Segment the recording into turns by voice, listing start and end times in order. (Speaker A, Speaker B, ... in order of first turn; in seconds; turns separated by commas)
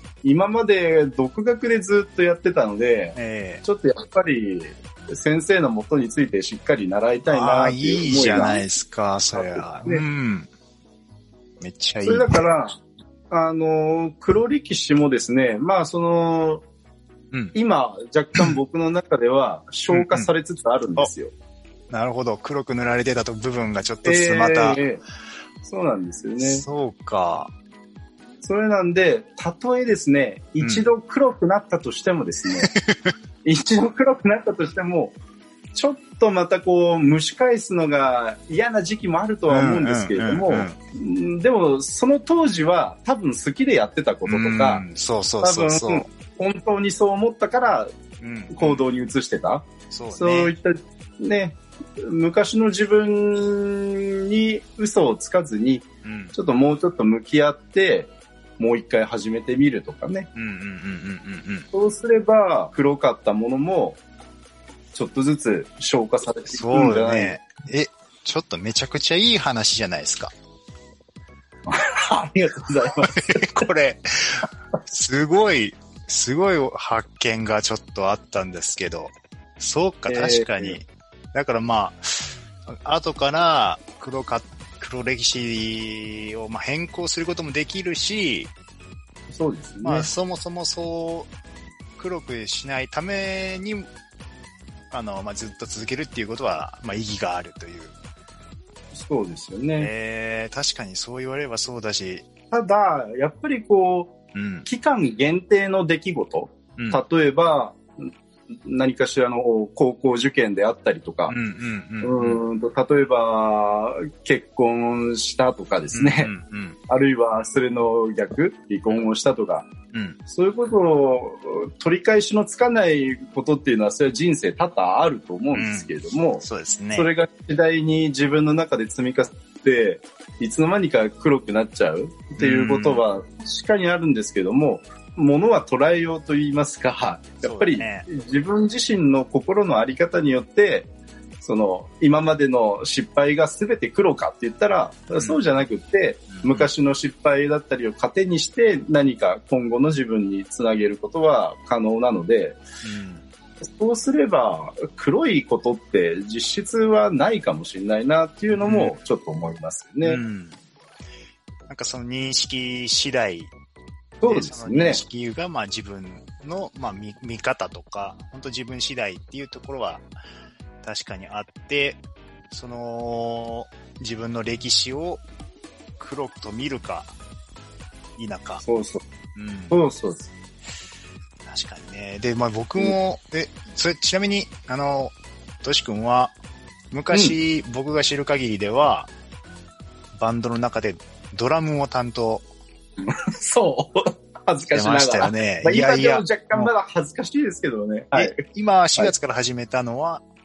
Speaker A: 0.2-8.6, Speaker B: 3.1-3.6, Speaker B: 7.2-10.5, Speaker A: 9.3-10.0, Speaker B: 11.6-12.4, Speaker A: 12.0-12.7, Speaker A: 13.3-16.6, Speaker A: 17.5-21.3, Speaker B: 19.9-20.3, Speaker B: 21.9-24.8, Speaker A: 24.0-25.0, Speaker A: 25.6-26.6, Speaker B: 26.4-27.5, Speaker A: 28.4-32.7, Speaker B: 30.6-30.9, Speaker B: 32.7-33.1, Speaker A: 33.4-35.1, Speaker A: 35.7-44.8, Speaker B: 39.5-40.8, Speaker B: 44.3-46.1, Speaker A: 45.4-47.9, Speaker B: 48.2-48.8, Speaker A: 48.5-60.3, Speaker B: 49.9-50.5, Speaker B: 56.0-56.3, Speaker B: 60.3-61.7, Speaker A: 61.7-64.0, Speaker A: 64.9-67.4, Speaker B: 66.5-70.3, Speaker A: 71.7-73.1, Speaker B: 73.0-88.5, Speaker A: 80.1-80.8, Speaker A: 89.3-90.1, Speaker B: 89.8-91.3, Speaker B: 92.0-93.9, Speaker B: 94.9-97.9, Speaker A: 98.9-99.9, Speaker B: 99.8-102.2, Speaker A: 102.5-108.0, Speaker B: 104.3-104.7, Speaker A: 108.5-111.3, Speaker B: 111.3-112.4, Speaker A: 112.0-116.3, Speaker B: 115.9-116.8, Speaker A: 116.9-119.7, Speaker B: 119.9-120.2, Speaker A: 120.3-140.9, Speaker B: 125.5-127.1, Speaker B: 132.4-133.0, Speaker B: 137.4-138.1, Speaker A: 141.4-152.6, Speaker B: 145.2-145.4, Speaker B: 146.3-146.7, Speaker B: 152.8-153.2, Speaker A: 153.6-160.2, Speaker B: 158.5-159.0, Speaker B: 160.0-160.6, Speaker B: 161.7-163.5, Speaker A: 164.2-165.0, Speaker B: 164.2-170.1, Speaker B: 170.8-175.2, Speaker B: 176.0-177.1, Speaker B: 178.2-178.6, Speaker A: 178.6-179.0, Speaker B: 179.3-179.8, Speaker A: 179.7-180.3, Speaker B: 181.4-186.3, Speaker B: 186.9-189.1, Speaker A: 187.1-187.4, Speaker B: 190.1-192.4, Speaker A: 193.0-198.4, Speaker B: 194.7-196.7, Speaker B: 198.1-200.2